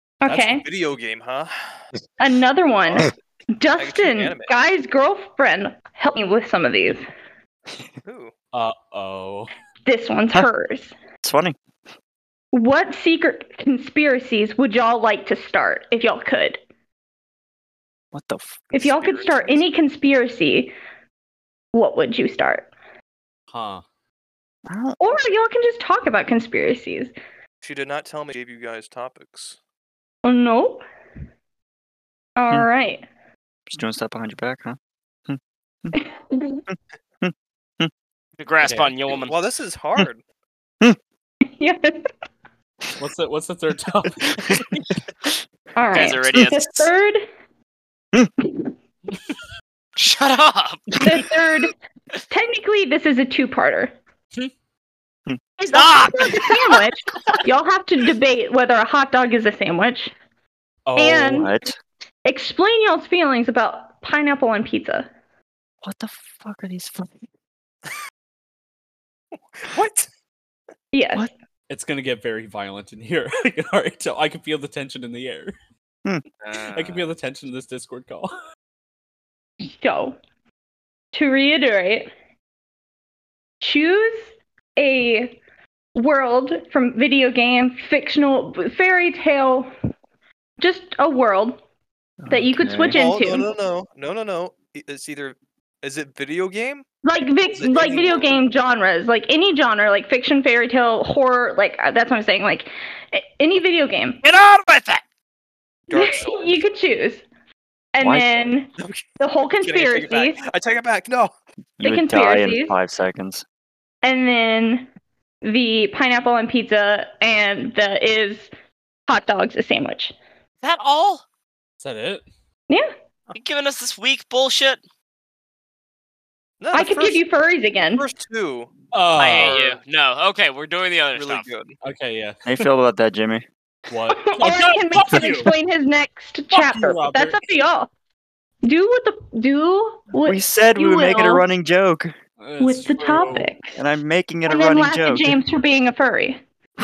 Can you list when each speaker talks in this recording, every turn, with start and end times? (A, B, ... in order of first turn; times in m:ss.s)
0:00.2-0:00.6 A
0:00.2-0:00.6 B
0:00.6-0:01.5 C
0:02.2-0:07.0 A
0:03.8-0:04.5 C
0:08.0-0:08.3 C
0:08.5-0:09.5 B
0:09.8-0:10.9 A
0:11.2-0:11.6 D
0:12.5-0:16.6 A
0:18.1-0:18.9 D
0:18.7-0:20.7 A
0:19.0-0:19.6 C
0:21.7-0:22.7 A
0:23.5-0:23.8 B
0:24.7-0:25.0 D
0:25.0-0:27.1 A
0:27.6-0:29.6 C
0:30.2-0:30.8 A
0:32.4-0:33.0 A
0:33.7-0:35.9 D
0:35.9-0:36.6 A
0:37.2-0:37.9 D
0:38.4-0:39.3 E
0:38.6-0:38.9 B
0:39.2-0:40.2 C
0:41.6-0:41.9 A
0:43.0-0:44.8 B
0:44.4-0:44.6 D
0:45.8-0:47.2 A
0:45.9-0:46.9 E
0:50.0-0:50.9 E
0:51.0-0:51.7 A
0:52.3-0:53.9 A
0:55.6-1:00.1 A
0:55.7-0:57.3 E
1:00.8-1:01.5 B
1:01.0-1:01.5 A
1:01.3-1:01.8 D
1:02.2-1:05.1 A
1:05.8-1:07.2 D
1:09.5-1:10.1 C
1:10.9-1:11.3 A
1:11.7-1:15.6 B
1:16.4-1:17.1 E
1:16.7-1:18.3 B
1:19.6-1:20.2 A
1:21.1-1:22.1 A
1:23.6-1:24.2 A
1:24.8-1:25.4 A
1:25.9-1:29.7 A
1:30.6-1:31.6 A
1:32.2-1:33.0 D
1:32.3-1:33.5 A
1:32.9-1:36.9 C
1:37.0-1:44.2 A
1:37.5-1:38.3 C
1:44.2-1:45.0 E
1:45.9-1:46.6 C
1:45.9-1:47.2 A
1:47.9-1:50.4 A
1:48.0-1:48.4 D
1:48.8-1:49.0 C
1:49.6-1:51.3 C
1:51.8-1:53.4 D
1:51.8-1:52.8 A
1:54.0-1:54.8 A
1:55.4-1:58.5 A
1:59.1-2:00.1 A
2:00.6-2:01.2 E
2:01.8-2:02.2 B
2:03.4-2:04.8 E
2:06.6-2:07.2 C
2:06.7-2:08.1 A
2:08.0-2:09.8 C
2:08.9-2:09.6 B
2:09.2-2:11.5 E
2:11.1-2:11.8 C
2:11.8-2:12.7 B
2:12.4-2:13.4 D
2:13.9-2:15.5 B
2:14.1-2:17.9 A
2:16.5-2:17.4 B
2:18.6-2:21.4 A
2:20.2-2:22.1 D
2:22.4-2:23.5 B
2:22.6-2:23.7 A
2:23.8-2:25.4 D
2:24.5-2:26.4 A